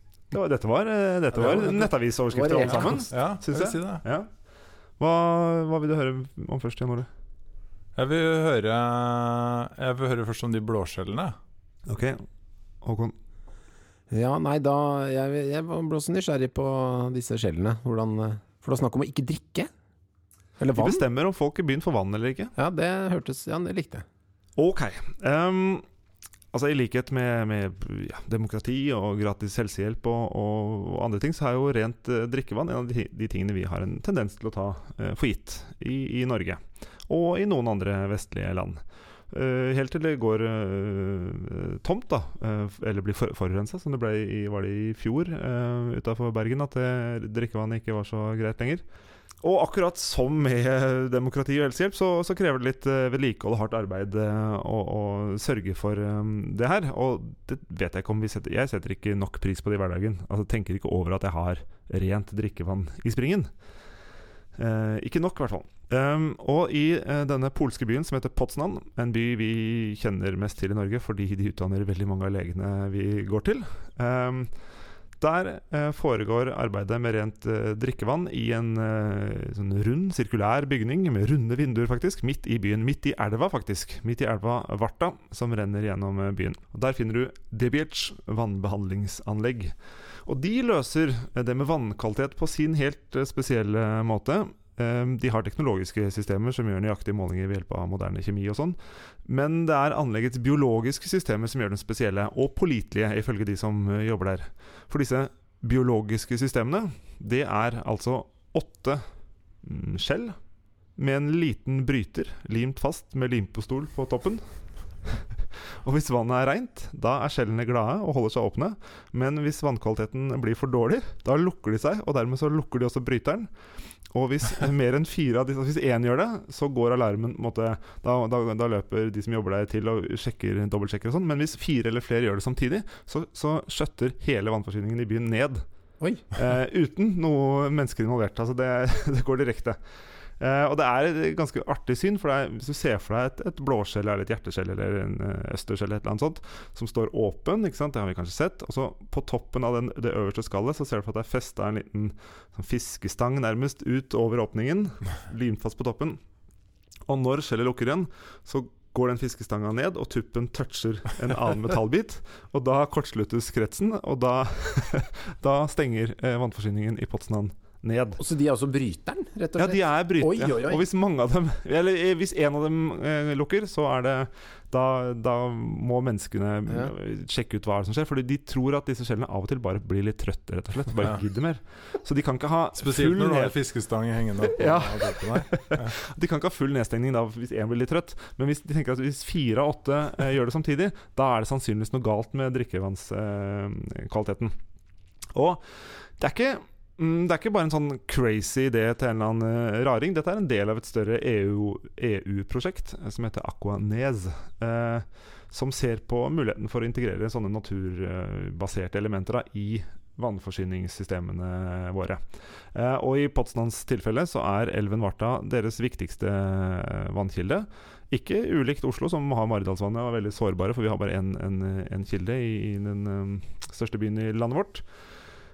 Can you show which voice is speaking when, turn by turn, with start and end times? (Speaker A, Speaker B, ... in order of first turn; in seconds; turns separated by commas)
Speaker A: 0.3-4.3, Speaker B: 1.3-3.1, Speaker C: 3.1-4.0, Speaker A: 5.0-7.1, Speaker C: 8.0-11.3, Speaker A: 11.8-12.3, Speaker A: 12.8-13.1, Speaker B: 14.1-19.7, Speaker B: 20.6-21.0, Speaker A: 20.8-22.5, Speaker B: 22.6-24.0, Speaker A: 24.6-25.8, Speaker A: 26.5-48.8, Speaker A: 49.4-63.5, Speaker A: 64.5-74.6, Speaker A: 75.2-109.0, Speaker A: 109.6-110.3, Speaker A: 111.0-123.5, Speaker A: 124.1-135.6, Speaker A: 136.3-139.8, Speaker A: 140.4-156.2, Speaker A: 157.1-168.2, Speaker B: 168.2-170.8, Speaker A: 169.6-183.6, Speaker C: 182.8-185.9, Speaker A: 184.4-194.6, Speaker A: 195.3-224.8